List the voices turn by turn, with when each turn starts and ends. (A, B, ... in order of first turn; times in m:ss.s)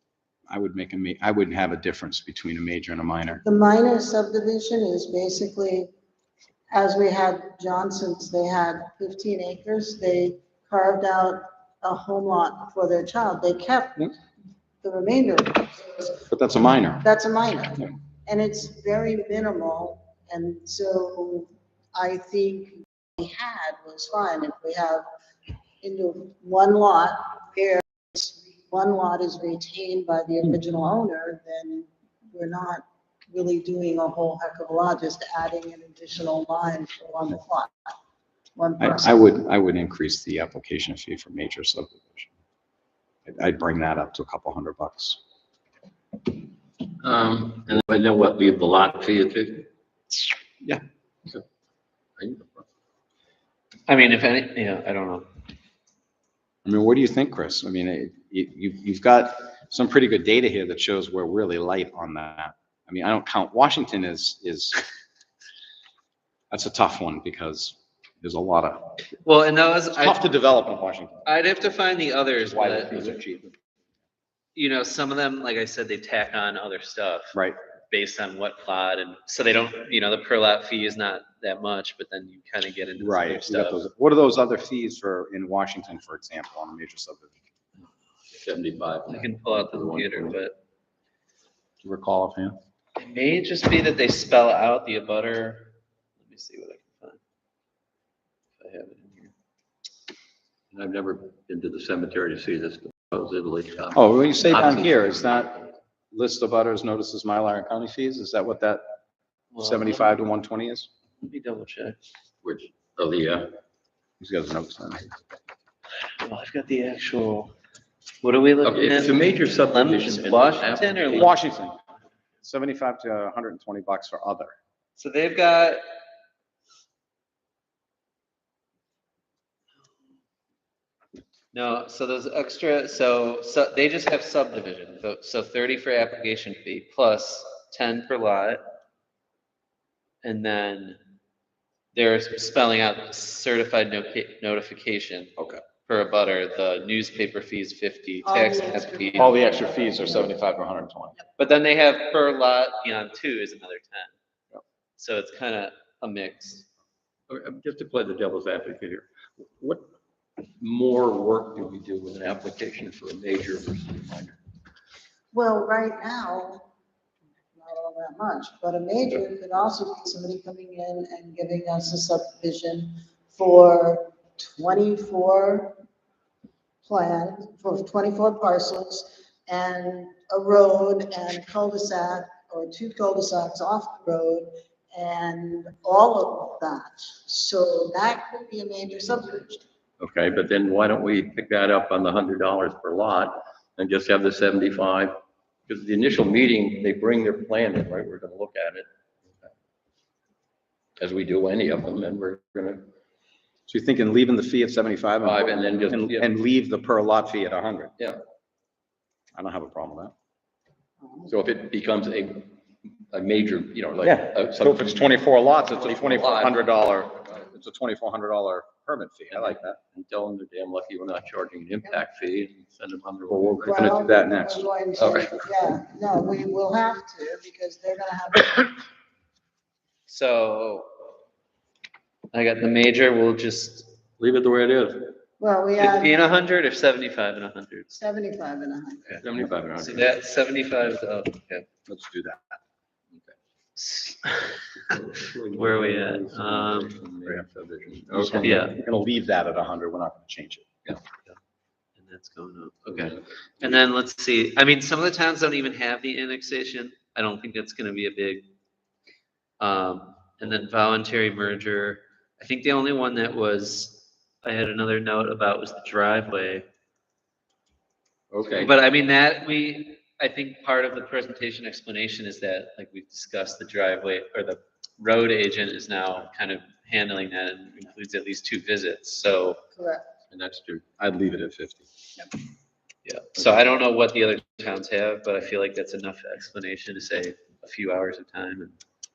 0:00.5-0:03.4 A
0:03.4-0:05.9 B
0:06.7-0:14.1 B
0:14.8-0:16.2 B
0:16.3-0:17.0 A
0:17.0-0:25.1 B
0:25.8-0:37.7 B
0:38.6-0:39.2 B
0:38.8-0:42.3 A
0:43.3-0:45.2 A
0:47.0-0:49.7 C
0:52.2-0:52.6 C
0:53.9-0:55.3 D
0:56.6-1:04.8 A
1:06.5-1:08.9 A
1:09.2-1:10.2 D
1:09.9-1:11.3 A
1:11.2-1:13.0 D
1:12.5-1:13.5 C
1:14.6-1:17.4 D
1:17.9-1:23.8 D
1:23.0-1:27.3 A
1:28.3-1:30.4 C
1:29.1-1:30.6 D
1:31.8-1:32.6 A
1:33.0-1:37.2 D
1:38.6-1:39.3 D
1:40.7-1:45.1 C
1:43.9-1:45.6 A
1:46.1-1:48.8 A
1:49.5-1:50.0 D
1:49.6-1:50.9 A
1:51.2-1:52.0 D
1:52.4-1:53.6 C
1:54.2-1:55.1 A
1:56.2-1:57.6 D
1:58.2-2:01.3 D
1:58.6-2:01.2 C
2:01.1-2:01.8 A
2:02.4-2:04.5 A
2:05.0-2:05.8 D
2:11.5-2:18.6 D
2:20.2-2:21.0 D
2:21.9-2:29.4 D
2:28.2-2:30.2 B
2:29.2-2:31.2 A
2:31.4-2:34.1 D
2:35.0-2:36.7 D
2:37.3-2:39.9 C
2:40.6-2:44.4 C
2:45.3-2:46.7 B
2:47.6-2:55.8 B
2:56.8-3:09.6 B
3:10.0-3:15.2 C
3:15.7-3:18.9 C
3:21.0-3:22.9 C
3:23.7-3:27.9 A
3:25.2-3:26.3 C
3:29.4-3:30.1 A
3:31.3-3:32.6 C
3:33.1-3:35.2 C
3:34.0-3:39.8 A
3:35.7-3:36.7 C
3:39.3-3:43.9 C
3:43.5-3:44.6 A
3:43.6-3:48.8 B
3:45.0-3:45.3 C
3:50.1-3:50.9 D
3:52.3-3:53.9 D
3:54.2-3:55.2 C
3:55.4-3:56.2 B
3:55.8-3:57.9 D
3:57.9-3:59.2 B
3:59.2-4:00.1 C
3:59.8-4:01.7 D
4:01.9-4:02.5 A
4:03.8-4:05.0 D
4:04.8-4:08.7 C
4:05.5-4:06.9 D
4:08.2-4:10.6 A
4:08.4-4:08.8 D
4:12.0-4:18.5 D
4:12.9-4:13.7 C
4:19.6-4:26.7 D
4:28.3-4:28.7 C
4:28.5-4:39.6 D
4:39.8-4:40.2 B
4:40.3-4:40.8 C
4:41.0-4:41.9 A
4:43.0-4:48.8 D